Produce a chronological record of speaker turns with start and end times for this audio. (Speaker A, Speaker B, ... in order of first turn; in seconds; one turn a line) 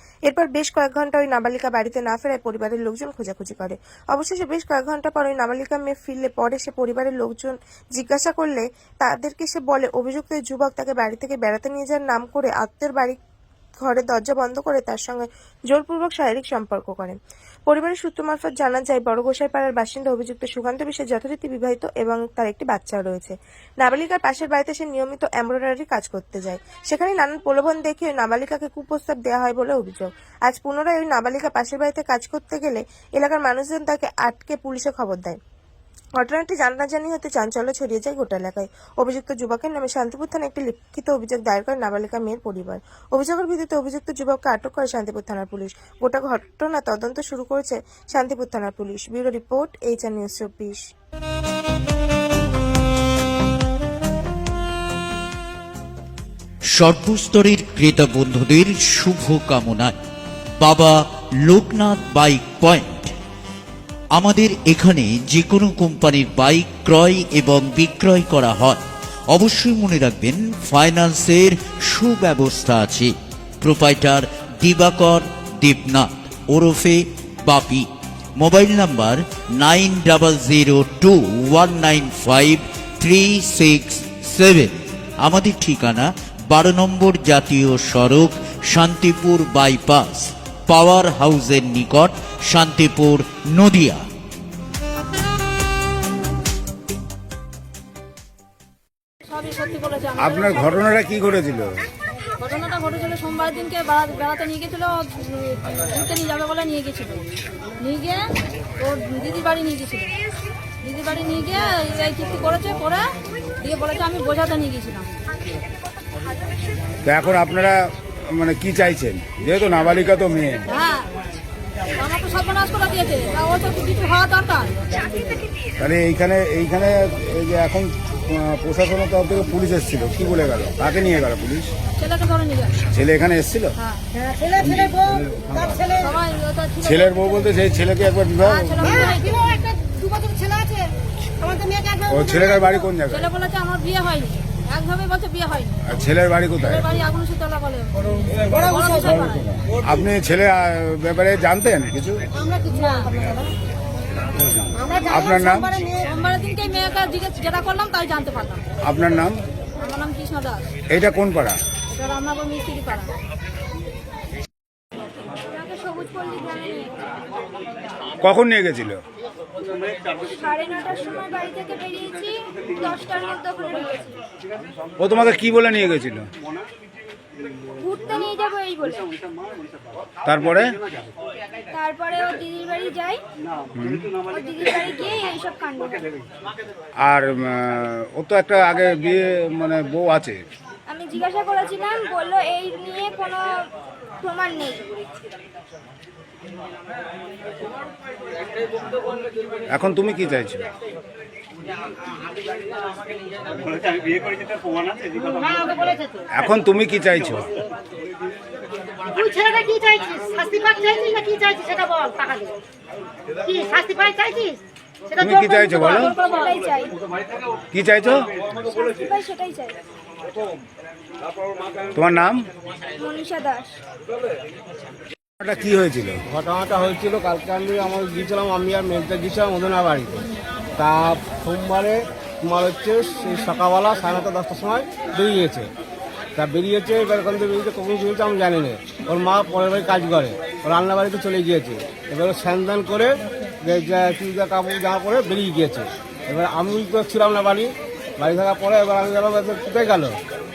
Speaker A: 0.3-13.2
Speaker A: 13.8-17.1
Speaker A: 17.7-35.4
Speaker A: 36.2-50.8
Speaker B: 56.7-59.9
Speaker B: 60.6-63.1
Speaker B: 64.1-94.0
Speaker C: 99.3-100.8
Speaker D: 100.2-101.7
Speaker C: 102.4-107.2
Speaker C: 107.8-108.2
Speaker C: 108.8-110.1
Speaker C: 110.8-113.0
Speaker C: 113.6-115.1
Speaker D: 117.0-120.6
Speaker C: 120.7-121.1
Speaker C: 122.0-124.8
Speaker D: 125.8-131.7
Speaker C: 132.0-132.7
Speaker D: 132.9-133.7
Speaker D: 134.6-135.9
Speaker C: 136.0-137.5
Speaker D: 136.8-139.2
Speaker C: 138.4-139.7
Speaker D: 142.0-143.3
Speaker C: 143.1-145.9
Speaker D: 145.9-146.8
Speaker C: 146.6-149.6
Speaker D: 149.1-152.2
Speaker D: 154.4-155.8
Speaker C: 156.0-158.6
Speaker D: 158.8-159.4
Speaker C: 159.8-160.7
Speaker D: 160.9-161.6
Speaker C: 161.9-163.1
Speaker E: 165.2-166.9
Speaker D: 168.2-169.0
Speaker E: 170.0-174.2
Speaker D: 175.0-176.2
Speaker E: 177.8-179.1
Speaker D: 180.2-180.7
Speaker E: 181.7-183.2
Speaker D: 183.8-184.1
Speaker E: 184.3-186.1
Speaker D: 187.0-190.4
Speaker E: 190.9-193.5
Speaker E: 194.2-195.0
Speaker D: 199.7-200.7
Speaker F: 205.2-206.0
Speaker D: 206.3-207.4
Speaker F: 209.2-212.5
Speaker F: 213.4-214.6
Speaker D: 215.2-216.1
Speaker E: 215.7-216.9
Speaker D: 217.7-218.3
Speaker E: 218.6-219.8
Speaker D: 221.9-222.5
Speaker E: 223.0-223.8
Speaker D: 225.4-226.2
Speaker G: 226.3-235.7
Speaker G: 236.3-250.2